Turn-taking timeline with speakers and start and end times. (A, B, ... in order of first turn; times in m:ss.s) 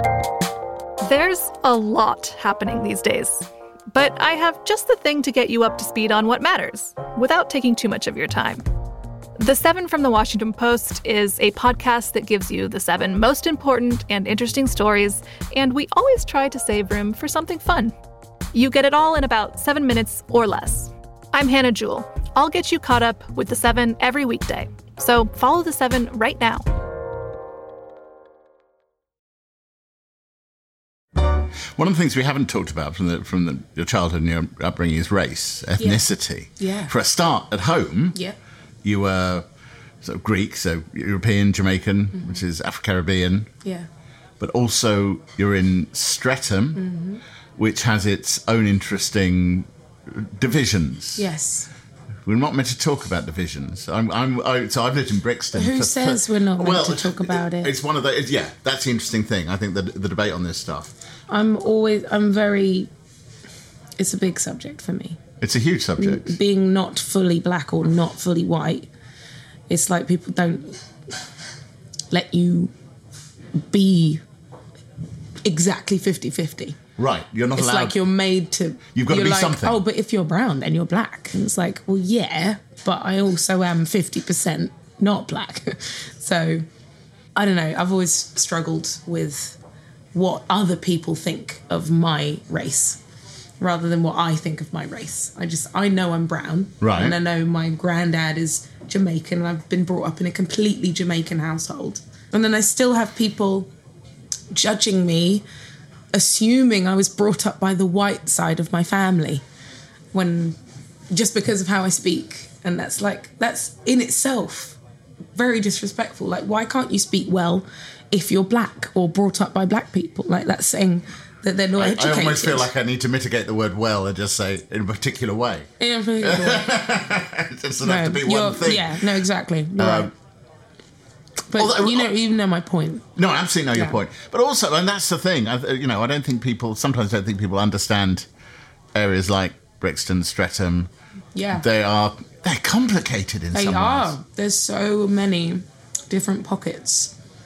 0:01.0-0:08.6 A
0:09.4-0:17.9 A
0:18.5-0:26.6 A
0:31.8-0:38.2 B
0:35.8-0:36.9 C
0:38.8-0:39.4 B
0:40.0-0:43.5 B
0:44.4-0:46.8 B
0:46.8-0:47.2 C
0:47.6-0:51.3 B
0:51.2-0:51.7 C
0:52.3-1:00.9 B
0:55.5-0:57.8 C
1:01.3-1:02.9 C
1:04.0-1:05.2 C
1:05.4-1:06.4 B
1:06.0-1:08.9 C
1:09.7-1:10.8 C
1:12.1-1:12.7 C
1:13.6-1:14.2 C
1:15.4-1:16.8 C
1:17.0-1:18.0 B
1:17.6-1:26.7 C
1:18.9-1:19.8 B
1:27.4-1:29.6 C
1:30.1-1:33.0 C
1:33.6-1:43.7 C
1:36.8-1:37.2 B
1:44.5-1:45.4 C
1:46.1-1:49.4 C
1:50.1-1:50.6 C
1:51.1-1:54.8 C
1:55.4-2:02.7 C
2:01.8-2:09.2 B
2:05.8-2:06.7 C
2:07.8-2:10.1 C
2:09.8-2:10.1 B
2:11.5-2:13.1 C
2:11.6-2:12.1 B
2:13.2-2:18.3 B
2:13.8-2:14.0 C
2:18.9-2:20.9 B
2:21.4-2:21.7 C
2:21.5-2:24.2 B
2:23.5-2:27.1 C